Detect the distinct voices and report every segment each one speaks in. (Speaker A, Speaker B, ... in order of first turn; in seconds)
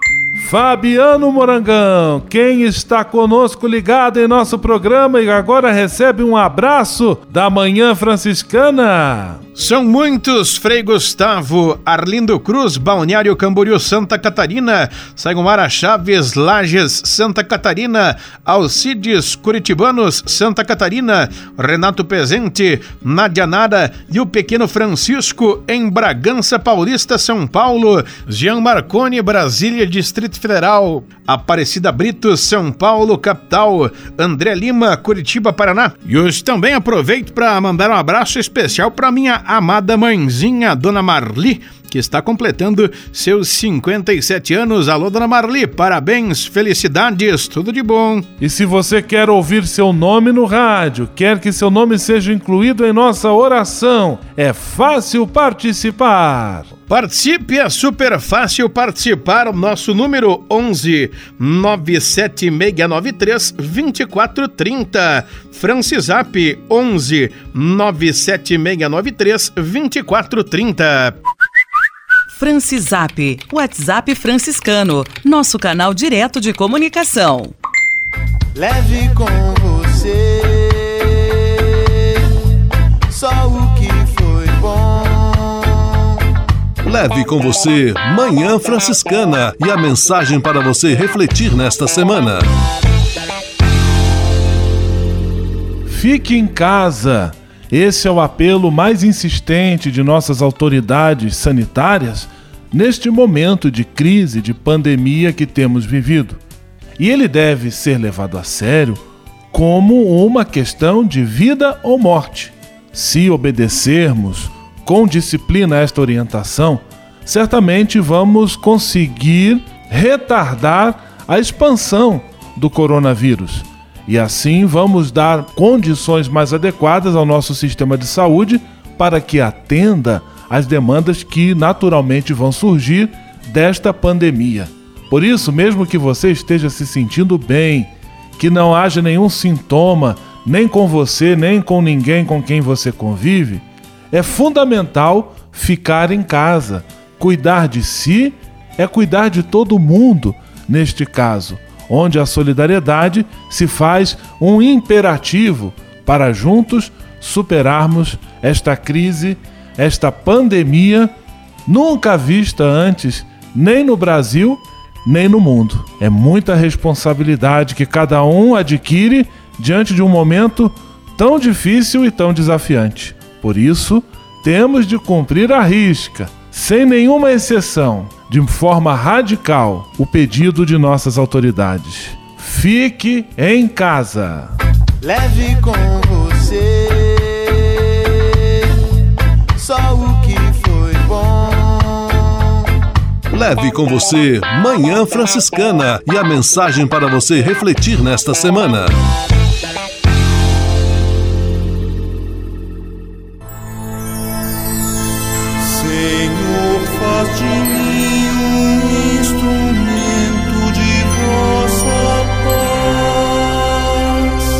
Speaker A: 0.4-9.4, 48.4-56.7, 95.9-106.4, 107.0-109.0, 109.5-161.1, 161.7-184.5
Speaker B: 9.5-48.3, 56.9-71.2
Speaker C: 72.3-77.5
Speaker D: 78.5-81.9, 83.1-85.9, 185.0-188.4, 189.6-192.4, 205.6-213.0
Speaker E: 86.8-92.5, 193.3-198.9